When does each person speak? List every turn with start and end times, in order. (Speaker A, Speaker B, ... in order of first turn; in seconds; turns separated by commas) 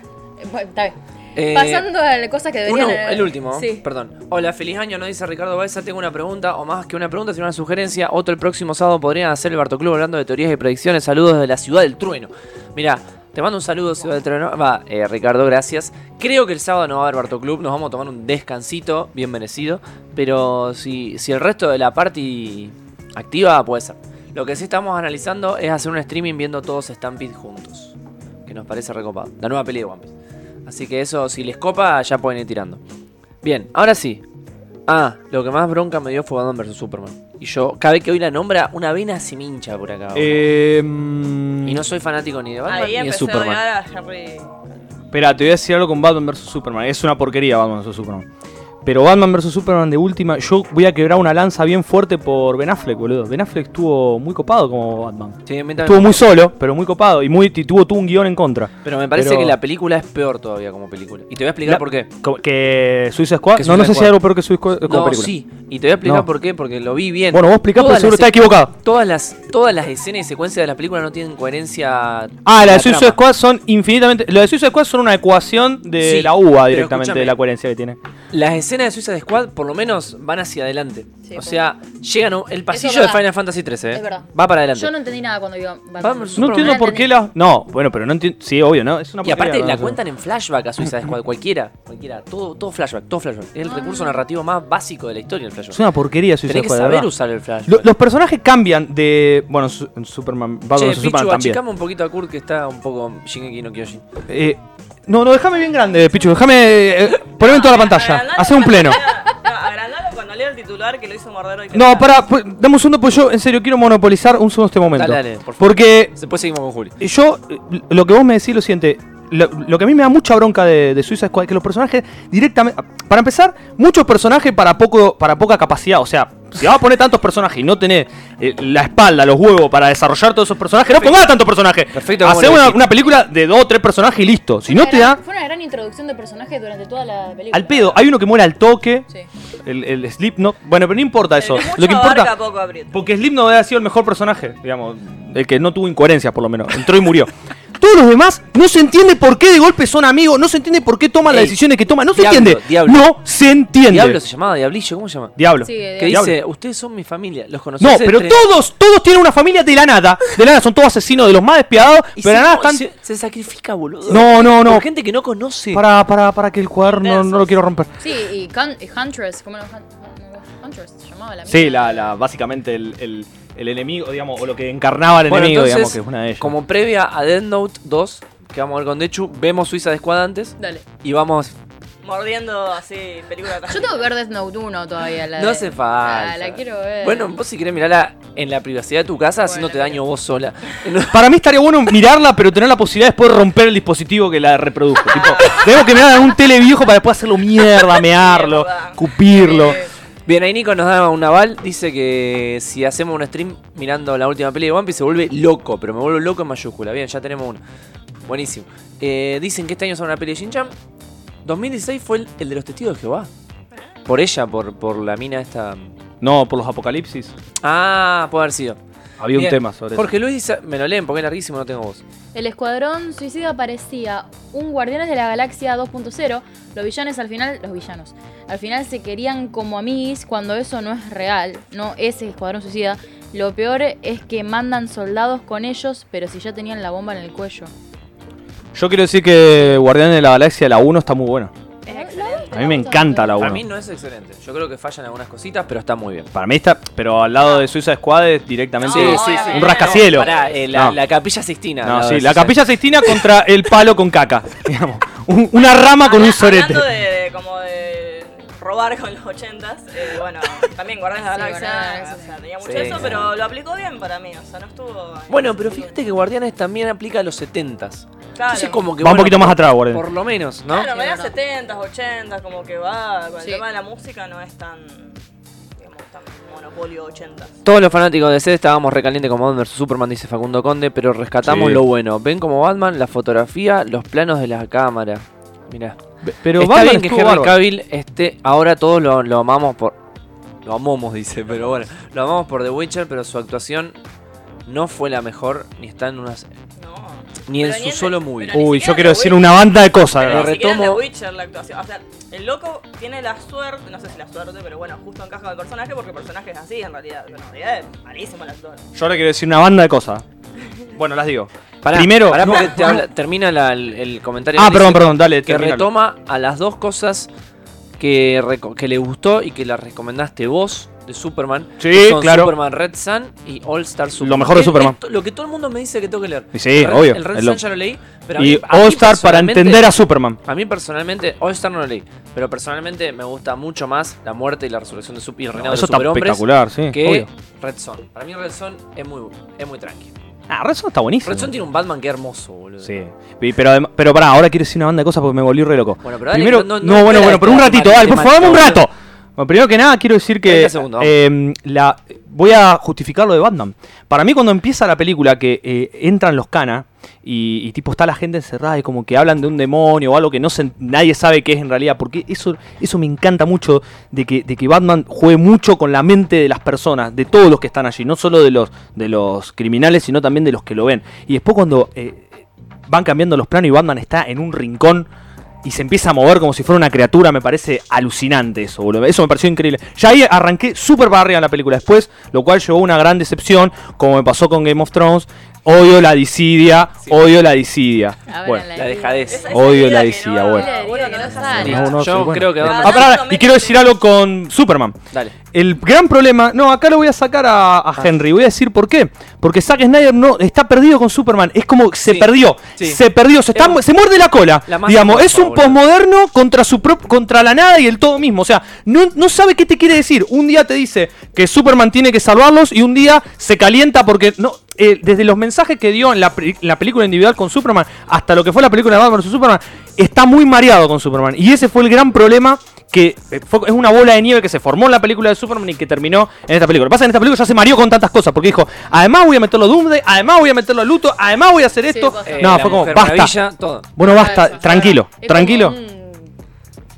Speaker A: 0.4-0.9, Speaker B: 1.3-1.9, Speaker A: 1.5-3.8, Speaker B: 2.6-27.9, Speaker B: 28.4-30.1, Speaker B: 30.6-32.8, Speaker B: 33.4-34.2, Speaker B: 34.9-40.4, Speaker C: 40.1-41.9, Speaker B: 41.6-43.6, Speaker D: 42.6-44.6, Speaker C: 45.1-48.3, Speaker C: 48.8-59.6, Speaker B: 55.5-56.3, Speaker B: 58.8-62.1, Speaker C: 61.6-65.3, Speaker B: 63.5-64.2, Speaker B: 64.8-73.2, Speaker C: 66.0-66.3, Speaker C: 67.3-68.7, Speaker C: 72.4-78.0, Speaker B: 76.0-77.3, Speaker B: 78.3-84.9, Speaker A: 81.2-81.7, Speaker A: 82.7-83.3, Speaker A: 83.9-87.2, Speaker B: 86.0-86.9, Speaker C: 86.4-90.0, Speaker B: 89.2-95.8, Speaker A: 93.6-94.2, Speaker C: 95.7-97.1, Speaker B: 96.5-97.8, Speaker C: 97.7-101.6, Speaker B: 100.7-104.0, Speaker C: 104.3-109.0, Speaker D: 107.3-112.1, Speaker C: 111.7-116.1, Speaker B: 114.9-117.0, Speaker C: 117.0-135.2, Speaker B: 130.9-131.3, Speaker B: 131.9-132.8, Speaker A: 134.7-138.1, Speaker C: 137.5-139.1, Speaker C: 139.6-142.3, Speaker D: 141.4-143.0, Speaker C: 142.9-154.2, Speaker B: 151.3-151.6, Speaker B: 152.1-153.0, Speaker B: 153.9-155.3, Speaker C: 155.4-156.4, Speaker A: 155.6-156.3, Speaker B: 156.0-158.4, Speaker C: 157.8-162.9, Speaker B: 162.2-165.8, Speaker C: 164.1-164.9, Speaker C: 165.7-167.9, Speaker D: 167.0-167.6, Speaker A: 168.0-172.2, Speaker C: 171.5-176.5, Speaker B: 175.3-181.5, Speaker A: 180.6-180.8, Speaker D: 182.0-184.0, Speaker A: 183.7-187.3, Speaker B: 185.3-191.2, Speaker A: 189.4-190.0, Speaker C: 191.1-199.8, Speaker D: 195.0-196.1, Speaker D: 197.8-199.9, Speaker B: 200.2-207.6, Speaker B: 208.2-210.7, Speaker B: 211.4-213.3, Speaker B: 214.1-215.9, Speaker C: 216.2-217.3, Speaker B: 217.6-218.8, Speaker C: 219.2-220.1, Speaker B: 219.3-222.0, Speaker A: 222.3-237.7, Speaker C: 238.7-241.5, Speaker D: 241.8-242.5, Speaker A: 241.9-243.5, Speaker C: 242.5-243.6, Speaker B: 243.3-246.3, Speaker C: 246.3-251.0, Speaker D: 248.8-250.6, Speaker B: 248.9-252.6, Speaker A: 249.1-249.7, Speaker C: 251.8-256.9, Speaker D: 255.8-266.0, Speaker A: 261.3-262.4, Speaker B: 262.6-263.3, Speaker B: 265.3-270.9, Speaker D: 268.3-268.8, Speaker C: 269.0-270.0, Speaker D: 270.7-275.2, Speaker A: 270.9-271.3, Speaker D: 275.8-277.6, Speaker B: 277.6-286.0, Speaker C: 281.4-281.8, Speaker C: 286.2-287.6, Speaker B: 286.6-290.0, Speaker B: 290.6-294.0, Speaker B: 294.6-296.5, Speaker D: 296.8-308.9, Speaker B: 297.5-298.6, Speaker C: 298.5-300.6, Speaker B: 300.2-301.0, Speaker C: 308.9-310.2, Speaker C: 310.9-313.0, Speaker B: 311.8-317.3, Speaker C: 314.5-315.9, Speaker B: 318.0-340.1, Speaker C: 321.8-322.5, Speaker C: 324.2-325.0, Speaker C: 326.5-327.6, Speaker C: 328.3-330.4, Speaker C: 335.5-337.3, Speaker C: 340.5-341.5, Speaker B: 341.2-342.9, Speaker C: 342.8-375.1, Speaker B: 346.0-348.8, Speaker B: 350.4-351.1, Speaker C: 375.6-388.6, Speaker A: 388.3-389.7, Speaker B: 388.7-389.6, Speaker D: 389.3-393.9, Speaker C: 389.5-395.0, Speaker A: 390.5-392.0, Speaker B: 391.4-393.2, Speaker C: 395.5-433.4, Speaker B: 402.1-403.0, Speaker B: 403.5-403.8, Speaker B: 404.7-405.8, Speaker A: 431.9-432.9, Speaker B: 432.2-433.9, Speaker C: 433.9-435.8, Speaker A: 434.0-436.3